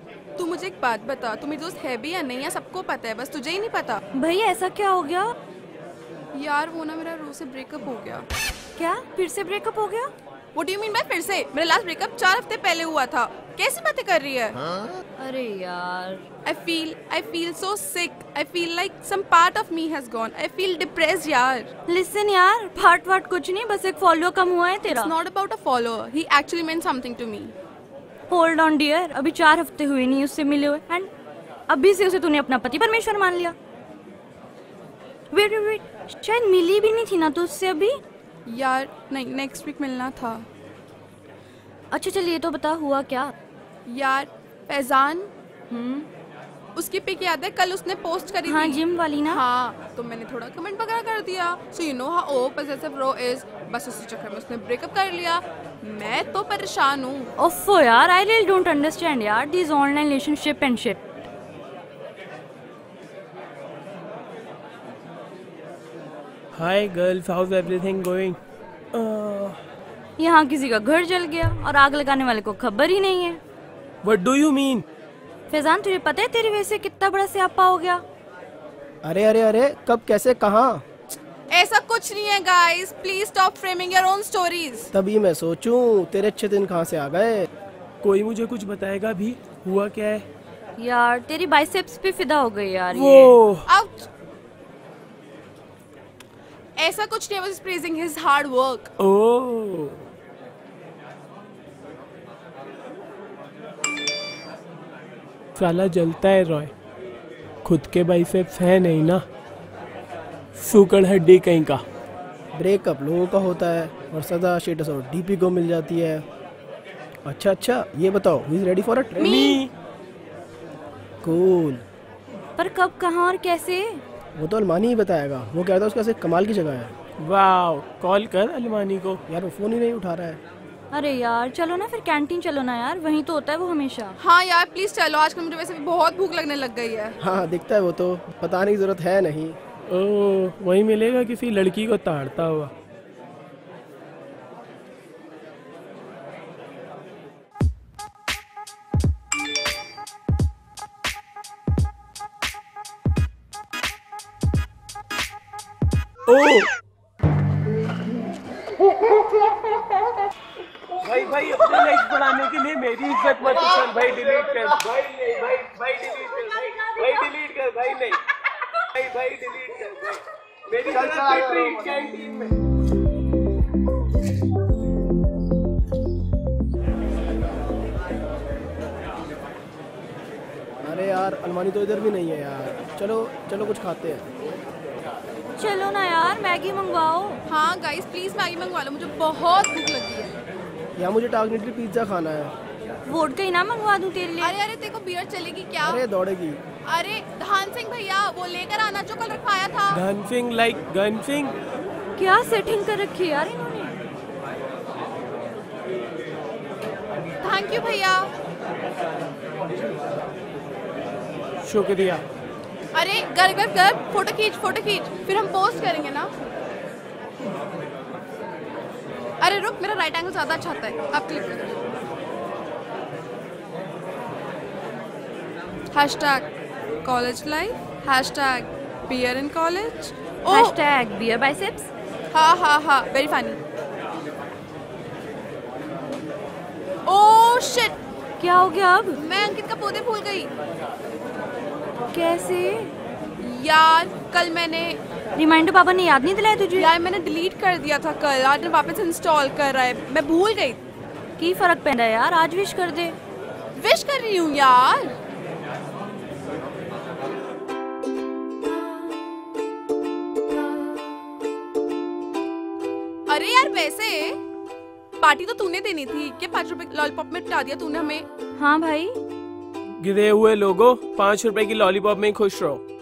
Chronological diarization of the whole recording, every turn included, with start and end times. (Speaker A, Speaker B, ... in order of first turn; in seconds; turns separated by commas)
Speaker A: 0.4-4.0, Speaker B: 4.1-5.3, Speaker A: 6.3-8.3, Speaker B: 8.8-10.1, Speaker A: 10.6-14.6, Speaker B: 15.2-16.2, Speaker A: 16.4-21.7, Speaker B: 21.9-25.1, Speaker A: 24.9-27.5, Speaker B: 28.3-31.1, Speaker B: 31.7-33.5, Speaker B: 35.3-38.0, Speaker A: 38.5-40.5, Speaker B: 41.9-43.3, Speaker A: 43.9-45.3, Speaker B: 45.7-46.1, Speaker A: 46.8-57.3, Speaker B: 48.5-49.4, Speaker B: 57.4-61.0, Speaker C: 66.5-68.4, Speaker C: 68.9-69.6, Speaker B: 70.2-73.4, Speaker C: 74.0-74.8, Speaker B: 75.5-78.0, Speaker D: 79.0-80.8, Speaker A: 81.5-84.9, Speaker D: 84.9-87.5, Speaker C: 88.0-90.2, Speaker B: 90.8-93.4, Speaker C: 92.9-93.7, Speaker A: 93.7-94.1, Speaker A: 96.8-98.9, Speaker C: 99.0-100.1, Speaker C: 105.6-106.7, Speaker C: 107.6-109.2, Speaker C: 110.5-111.8, Speaker D: 112.6-116.2, Speaker D: 117.3-119.2, Speaker B: 119.2-119.6, Speaker C: 119.2-119.7, Speaker D: 121.2-121.8, Speaker B: 122.6-124.0, Speaker D: 124.4-126.9, Speaker C: 127.2-129.2, Speaker D: 129.3-130.4, Speaker B: 130.9-134.2, Speaker A: 134.2-137.2, Speaker D: 137.2-139.6, Speaker C: 139.9-142.7, Speaker C: 156.3-156.7, Speaker C: 161.0-168.2, Speaker C: 168.9-172.5, Speaker D: 180.8-184.3, Speaker B: 185.6-187.4, Speaker A: 187.5-190.3, Speaker D: 191.0-192.5, Speaker B: 193.1-194.6, Speaker A: 194.4-196.0, Speaker D: 195.9-196.6, Speaker A: 196.9-200.0, Speaker C: 199.9-201.5, Speaker B: 202.2-204.0, Speaker A: 207.4-208.3, Speaker C: 211.6-212.2, Speaker A: 212.9-216.3, Speaker A: 219.4-221.8, Speaker A: 225.9-226.5, Speaker A: 227.0-230.7, Speaker B: 230.5-231.9, Speaker A: 232.3-233.6, Speaker A: 237.1-238.0, Speaker B: 238.4-239.2, Speaker A: 239.2-240.5, Speaker B: 242.1-242.9, Speaker A: 243.4-245.0, Speaker B: 245.3-246.9, Speaker A: 246.8-250.8, Speaker B: 251.4-253.2, Speaker A: 253.8-255.1, Speaker A: 263.3-264.4, Speaker A: 265.2-268.2, Speaker B: 268.6-269.2, Speaker C: 270.0-272.8